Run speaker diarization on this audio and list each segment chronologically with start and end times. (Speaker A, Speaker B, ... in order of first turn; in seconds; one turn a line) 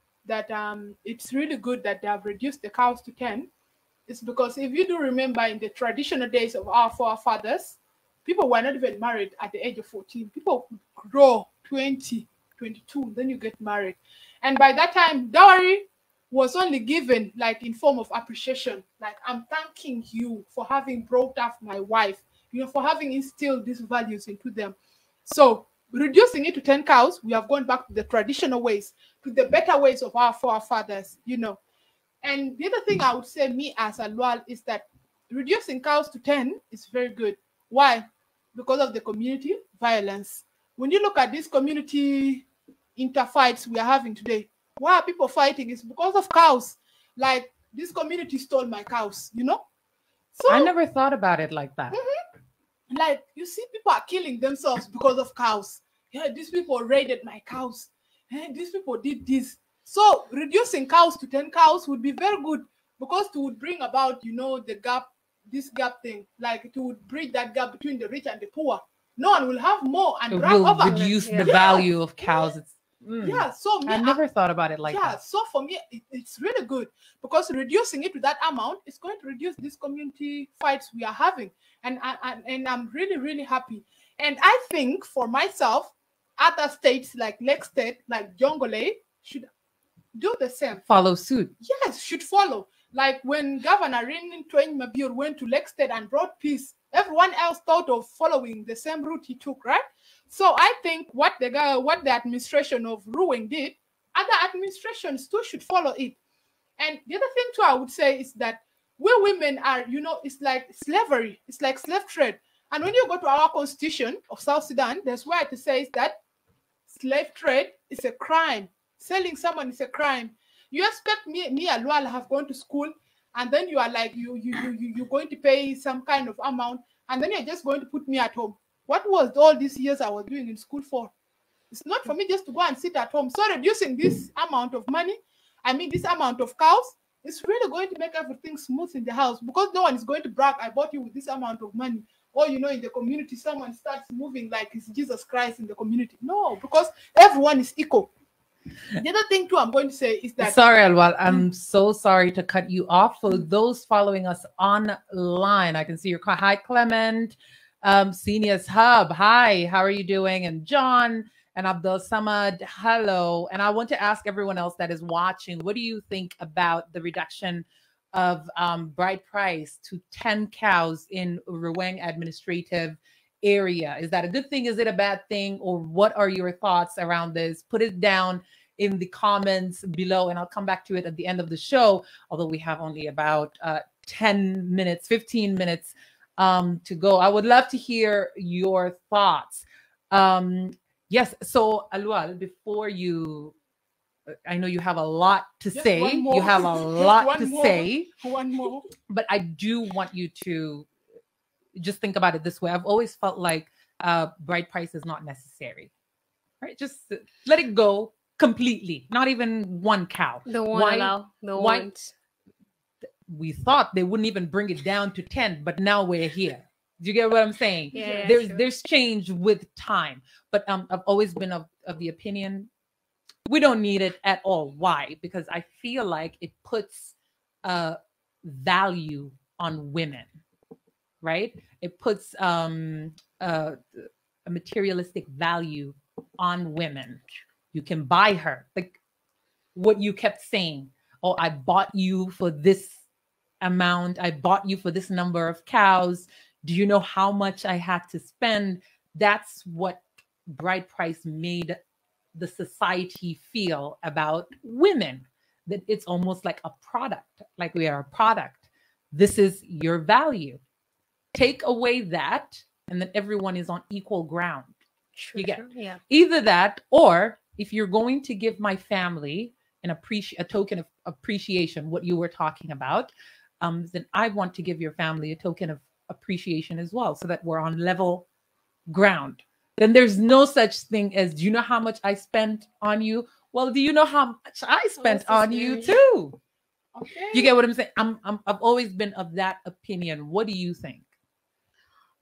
Speaker A: 0.2-3.5
Speaker A: 4.1-31.6
Speaker A: 32.2-49.6
Speaker A: 50.4-50.7
Speaker B: 50.5-52.0
Speaker A: 51.9-52.2
Speaker A: 52.9-72.5
Speaker B: 70.3-75.2
Speaker C: 70.9-71.5
Speaker A: 73.2-74.2
Speaker A: 74.9-89.5
Speaker A: 90.2-90.9
Speaker B: 90.9-91.5
Speaker A: 91.6-106.2
Speaker A: 106.8-116.2
Speaker A: 116.9-131.1
Speaker A: 131.7-148.1
Speaker A: 148.9-150.6
Speaker B: 150.4-193.6
Speaker B: 194.5-198.1
Speaker A: 195.7-198.9
Speaker B: 199.1-200.9
Speaker B: 201.8-205.9
Speaker B: 206.6-211.9
Speaker C: 210.5-212.1
Speaker B: 213.3-222.7
Speaker C: 217.9-218.6
Speaker A: 217.9-218.3
Speaker B: 223.5-230.3
Speaker B: 231.2-237.2
Speaker B: 237.7-239.0
Speaker B: 239.8-243.0
Speaker B: 243.6-251.8
Speaker B: 252.3-260.6
Speaker B: 261.3-264.8
Speaker C: 265.2-266.0
Speaker B: 265.4-278.3
Speaker B: 278.9-286.4
Speaker A: 285.0-286.0
Speaker A: 286.9-287.5
Speaker B: 287.3-291.1